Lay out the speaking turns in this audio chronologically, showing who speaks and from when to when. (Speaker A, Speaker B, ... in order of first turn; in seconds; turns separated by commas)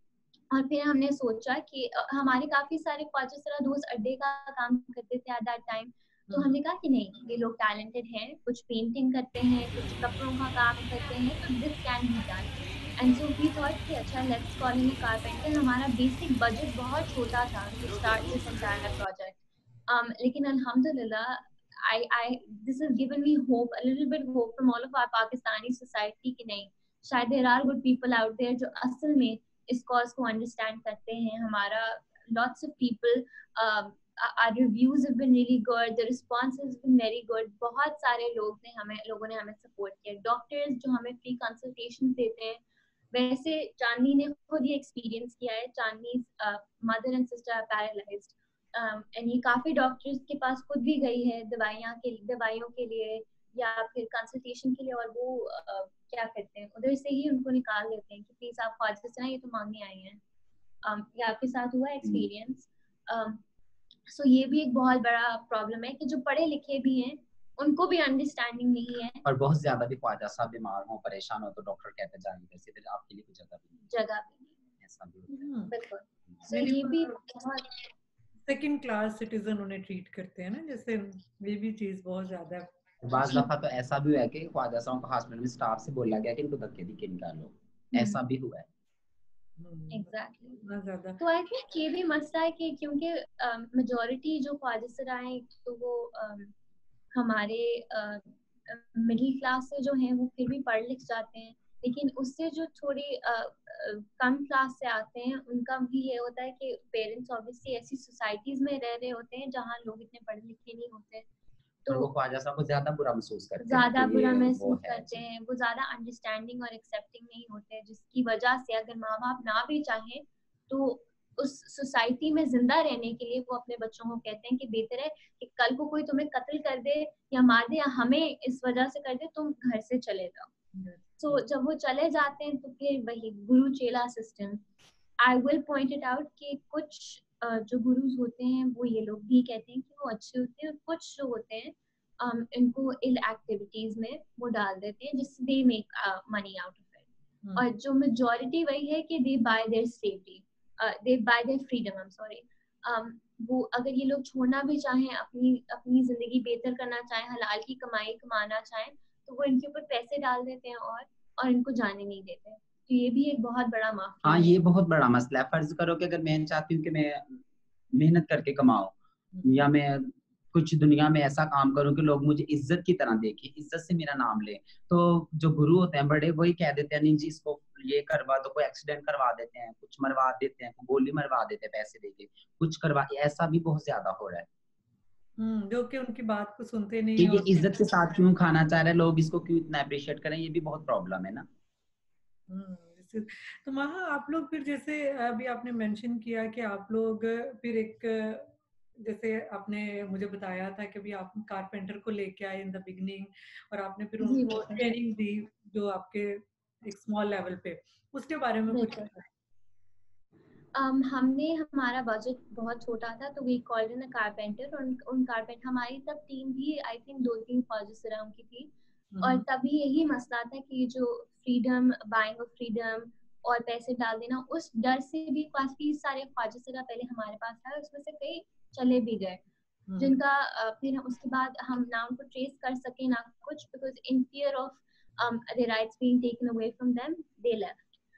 Speaker A: 0.5-42.6, Speaker B: 6.3-6.6, Speaker A: 43.1-60.2, Speaker A: 60.8-63.4, Speaker A: 64.1-69.2, Speaker C: 69.2-73.8, Speaker A: 73.8-74.6, Speaker C: 74.8-75.4, Speaker B: 75.4-75.7, Speaker A: 75.7-77.9, Speaker B: 76.5-77.1, Speaker B: 78.5-82.7, Speaker C: 83.0-88.7, Speaker A: 83.1-83.5, Speaker A: 87.9-88.2, Speaker B: 89.6-91.2, Speaker A: 89.9-90.6, Speaker A: 91.2-96.5, Speaker A: 97.1-111.3, Speaker A: 111.8-112.1, Speaker C: 111.9-115.2, Speaker A: 113.6-130.5, Speaker B: 130.8-131.4, Speaker A: 131.2-134.6, Speaker A: 135.2-164.6, Speaker C: 164.2-167.4, Speaker C: 167.9-184.4, Speaker B: 169.3-169.7, Speaker B: 185.4-187.9, Speaker C: 187.2-191.4, Speaker B: 192.5-209.3, Speaker A: 204.2-204.8, Speaker A: 208.7-209.1, Speaker A: 210.7-218.7, Speaker B: 219.1-219.4, Speaker A: 219.2-229.4, Speaker B: 229.9-230.1, Speaker A: 230.0-237.8